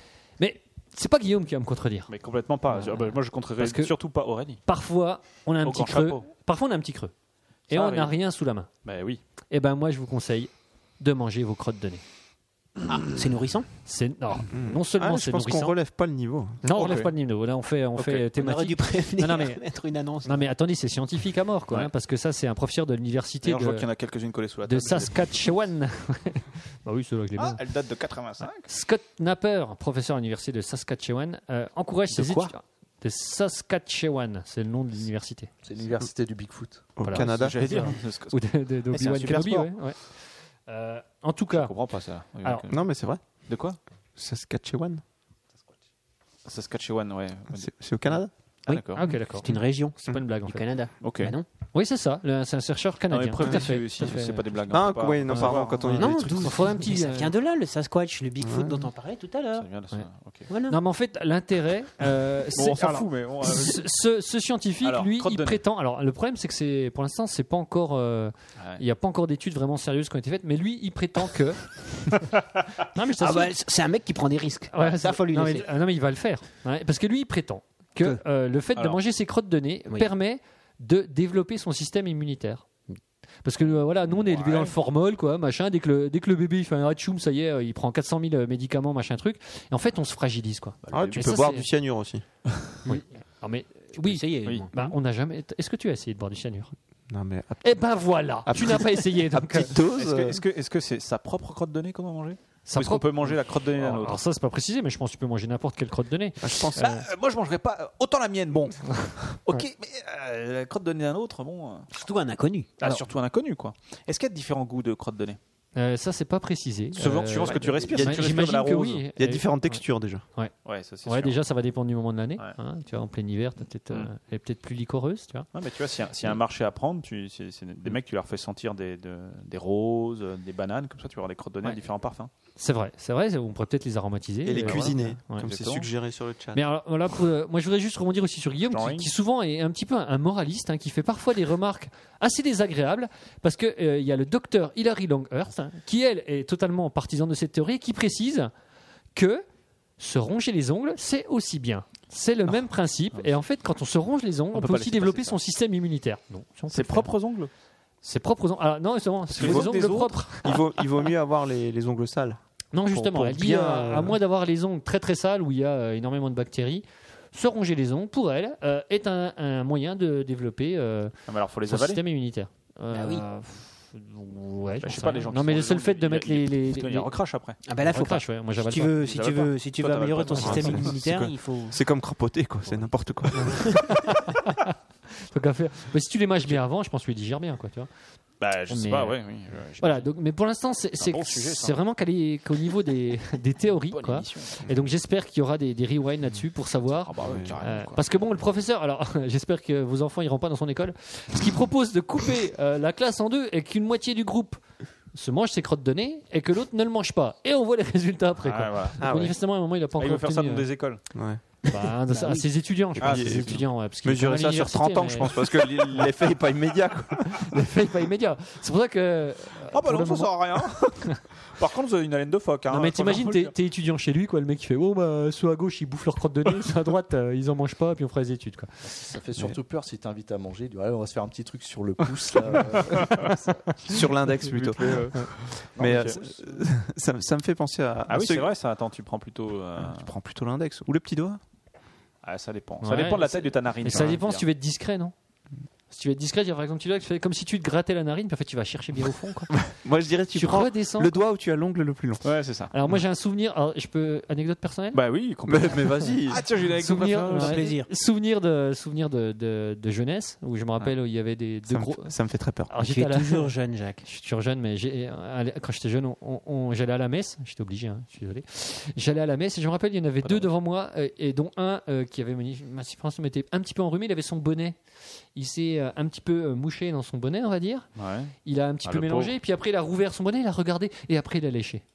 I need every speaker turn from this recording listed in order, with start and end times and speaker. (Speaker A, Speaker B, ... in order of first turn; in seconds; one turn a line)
Speaker A: 0.4-2.1
Speaker B: 2.1-4.6
Speaker A: 2.7-3.9
Speaker A: 4.7-7.1
Speaker B: 5.6-6.2
Speaker B: 7.7-8.1
Speaker A: 7.7-8.7
Speaker B: 8.8-9.2
Speaker A: 9.5-12.0
Speaker C: 12.9-13.7
Speaker A: 13.8-15.8
Speaker D: 14.5-16.6
Speaker A: 16.6-19.6
Speaker B: 16.7-17.1
Speaker B: 18.0-18.2
Speaker C: 18.3-20.5
Speaker A: 20.2-23.9
Speaker B: 23.4-25.3
Speaker A: 24.6-27.6
Speaker B: 27.4-28.7
Speaker A: 28.4-35.5
Speaker C: 32.1-32.5
Speaker E: 35.6-36.9
Speaker D: 37.0-37.6
Speaker A: 37.0-41.7
Speaker B: 37.1-39.7
Speaker B: 41.5-42.9
Speaker D: 42.7-43.5
Speaker B: 43.5-43.8
Speaker D: 44.1-45.0
Speaker B: 46.4-49.1
Speaker D: 47.5-48.3
Speaker C: 48.7-51.5
Speaker A: 49.0-50.6
Speaker B: 51.0-51.3
Speaker A: 51.7-54.5
Speaker B: 53.1-56.0
Speaker D: 54.7-56.5
Speaker A: 55.3-57.3
Speaker C: 55.9-59.7
Speaker D: 58.4-58.9
Speaker B: 59.5-60.5
Speaker C: 60.5-60.8
Speaker A: 60.7-73.5
Speaker B: 62.5-63.9
Speaker B: 64.8-65.6
Speaker B: 68.6-68.8
Speaker C: 73.2-75.7
Speaker A: 74.7-82.7
Speaker A: 83.4-91.7
Speaker B: 83.6-84.7
Speaker B: 90.8-91.3
Speaker D: 90.9-92.2
Speaker A: 92.8-96.7
Speaker C: 93.9-94.9
Speaker D: 97.1-100.4
Speaker A: 97.6-99.7
Speaker B: 99.8-104.2
Speaker A: 102.7-107.0
Speaker D: 106.4-106.8
Speaker B: 106.8-111.9
Speaker A: 108.9-109.6
Speaker C: 111.9-112.7
Speaker B: 112.8-115.4
Speaker A: 115.7-119.8
Speaker B: 116.9-119.0
Speaker D: 117.9-118.5
Speaker D: 119.2-120.2
Speaker B: 120.6-121.4
Speaker A: 121.0-125.5
Speaker B: 125.5-132.3
Speaker A: 132.6-135.5
Speaker D: 134.4-136.6
Speaker B: 134.6-135.9
Speaker A: 136.5-148.5
Speaker B: 138.7-139.1
Speaker A: 149.1-149.4
Speaker A: 150.0-157.1
Speaker B: 154.5-155.4
Speaker B: 156.7-157.5
Speaker A: 158.0-160.6
Speaker D: 159.3-159.7
Speaker B: 159.3-160.6
Speaker D: 160.4-164.2
Speaker A: 162.7-171.1
Speaker B: 171.3-172.0
Speaker A: 171.7-177.1
Speaker C: 172.9-173.2
Speaker B: 174.8-177.6
Speaker C: 177.6-181.8
Speaker A: 177.8-179.0
Speaker B: 179.0-181.2
Speaker D: 180.4-183.8
Speaker A: 183.4-184.7
Speaker A: 185.3-187.9
Speaker B: 188.4-190.1
Speaker A: 188.7-189.2
Speaker A: 189.8-204.6
Speaker B: 191.0-191.8
Speaker B: 193.9-194.7
Speaker B: 197.0-198.1
Speaker D: 197.2-197.6
Speaker A: 205.1-210.7
Speaker B: 208.4-209.0
Speaker D: 209.0-209.3
Speaker B: 210.0-211.0
Speaker D: 211.1-211.4
Speaker A: 211.7-215.3
Speaker C: 212.1-212.5
Speaker D: 212.9-217.6
Speaker B: 213.0-213.6
Speaker A: 217.3-221.2
Speaker B: 219.7-223.5
Speaker A: 222.7-228.9
Speaker E: 229.0-233.9
Speaker D: 233.8-238.5
Speaker B: 234.5-236.2
Speaker E: 235.8-236.6
Speaker B: 238.1-240.1
Speaker D: 239.8-241.4
Speaker B: 242.2-244.4
Speaker A: 242.8-245.1
Speaker A: 245.9-249.6
Speaker D: 249.7-252.3
Speaker A: 250.3-251.1
Speaker B: 252.2-252.7
Speaker A: 252.7-255.0
Speaker B: 254.9-257.6
Speaker D: 255.5-256.4
Speaker A: 256.8-262.1
Speaker C: 257.2-257.9
Speaker D: 261.7-262.7
Speaker A: 262.7-274.8
Speaker C: 262.8-264.0
Speaker B: 270.2-270.5
Speaker A: 275.3-277.9
Speaker B: 277.9-279.3
Speaker A: 278.4-281.8